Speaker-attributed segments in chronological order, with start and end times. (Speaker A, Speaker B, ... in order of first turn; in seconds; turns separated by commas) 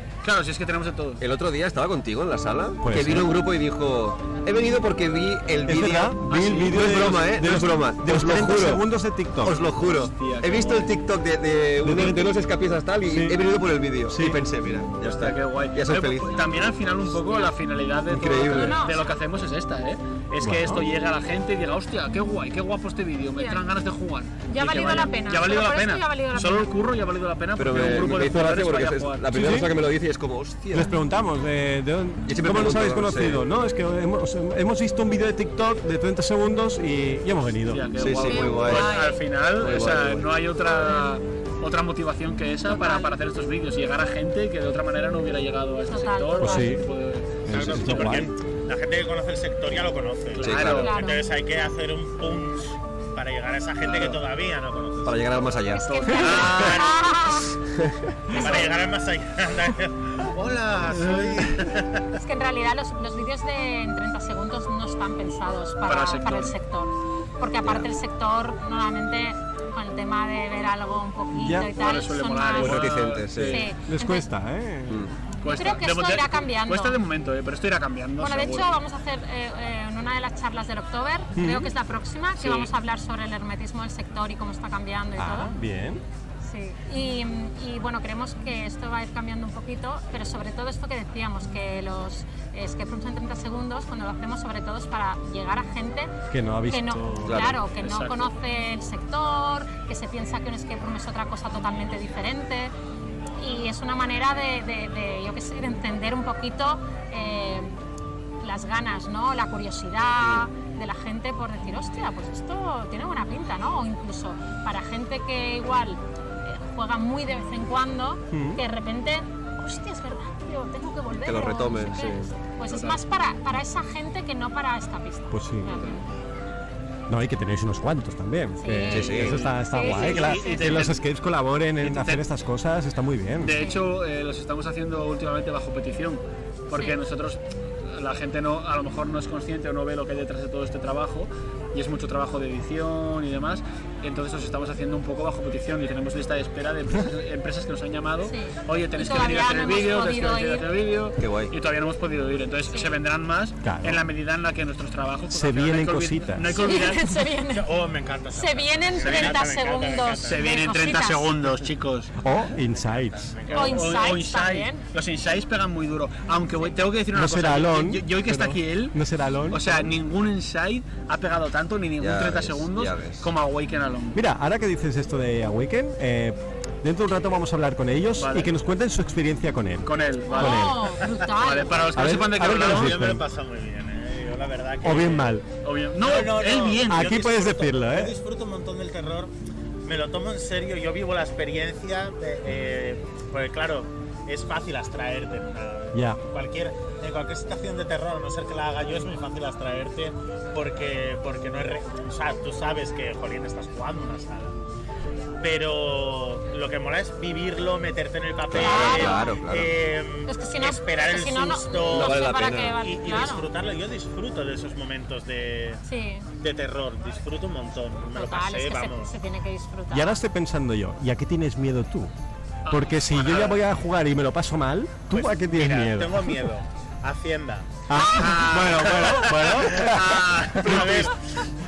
Speaker A: 0.2-1.2, Speaker B: 1.2-8.8, Speaker C: 2.8-3.3, Speaker C: 5.7-9.6, Speaker A: 6.3-7.0, Speaker B: 9.4-16.6, Speaker A: 9.7-10.9, Speaker C: 11.8-12.3, Speaker C: 13.1-13.4, Speaker C: 14.1-14.4, Speaker A: 15.0-29.6, Speaker B: 18.1-18.8, Speaker D: 18.5-19.1, Speaker C: 20.4-20.9, Speaker D: 23.4-23.6, Speaker D: 24.5-26.7, Speaker B: 27.6-30.9, Speaker C: 29.3-29.7, Speaker C: 30.7-37.9, Speaker B: 32.3-33.4, Speaker A: 37.7-48.1, Speaker B: 38.0-39.0, Speaker D: 38.2-39.2, Speaker B: 39.6-40.3, Speaker D: 42.7-43.1, Speaker D: 45.9-46.8, Speaker C: 46.4-46.8, Speaker C: 47.4-48.3, Speaker E: 47.5-55.5, Speaker A: 50.3-51.0, Speaker B: 50.4-50.9, Speaker D: 50.7-51.2, Speaker A: 53.8-54.1, Speaker B: 55.0-56.2, Speaker D: 55.7-57.5, Speaker A: 56.0-56.9, Speaker E: 56.1-57.1, Speaker B: 57.7-58.1, Speaker E: 58.3-62.1, Speaker D: 62.2-74.3, Speaker A: 65.9-66.5, Speaker B: 67.6-67.9, Speaker C: 71.3-71.7, Speaker A: 71.7-73.7, Speaker B: 72.6-73.7, Speaker C: 73.9-75.1, Speaker A: 75.4-78.7, Speaker D: 75.4-77.0, Speaker D: 78.2-85.5, Speaker C: 81.3-81.7, Speaker A: 82.4-82.7, Speaker C: 85.2-86.0, Speaker D: 86.4-96.1, Speaker C: 96.3-97.6, Speaker D: 96.7-102.7, Speaker B: 97.3-97.6, Speaker A: 97.8-98.3, Speaker D: 103.4-107.8, Speaker D: 108.4-126.0, Speaker C: 118.3-118.6, Speaker B: 121.2-122.3, Speaker A: 122.7-123.0, Speaker C: 125.3-125.8, Speaker A: 125.7-126.0, Speaker C: 127.1-133.6, Speaker D: 128.6-130.9, Speaker B: 128.9-129.4, Speaker A: 129.0-131.0, Speaker A: 131.8-132.2, Speaker A: 133.4-157.1, Speaker D: 133.5-133.8, Speaker D: 136.7-137.0, Speaker D: 148.2-150.7, Speaker B: 151.2-151.5, Speaker D: 152.7-152.9, Speaker C: 153.6-154.0, Speaker C: 155.3-156.6, Speaker D: 156.5-157.7, Speaker E: 157.5-160.5, Speaker D: 158.3-161.4, Speaker A: 159.0-159.4, Speaker A: 160.2-162.1, Speaker C: 162.2-163.3, Speaker E: 162.7-163.9, Speaker A: 163.5-169.0, Speaker D: 163.5-164.8, Speaker C: 167.1-169.9, Speaker A: 169.5-174.2, Speaker B: 172.0-173.3, Speaker C: 174.1-180.9, Speaker A: 178.2-178.5, Speaker A: 179.8-180.7, Speaker D: 180.3-181.9, Speaker A: 181.3-183.0, Speaker C: 181.9-183.2, Speaker E: 182.4-185.3, Speaker C: 184.8-185.4, Speaker A: 185.6-187.2, Speaker E: 186.0-189.3, Speaker C: 186.8-188.2, Speaker E: 189.8-204.6, Speaker C: 195.9-196.2, Speaker E: 205.4-215.8, Speaker B: 208.5-209.7, Speaker D: 208.5-209.3, Speaker D: 210.3-213.5, Speaker B: 211.9-212.8, Speaker D: 215.8-216.3, Speaker E: 216.4-219.1, Speaker D: 218.1-220.2, Speaker C: 219.9-222.1, Speaker A: 222.6-223.6, Speaker C: 222.7-226.5, Speaker E: 223.3-223.5, Speaker E: 225.1-227.7, Speaker C: 227.9-231.1, Speaker A: 228.1-231.1, Speaker E: 228.4-231.5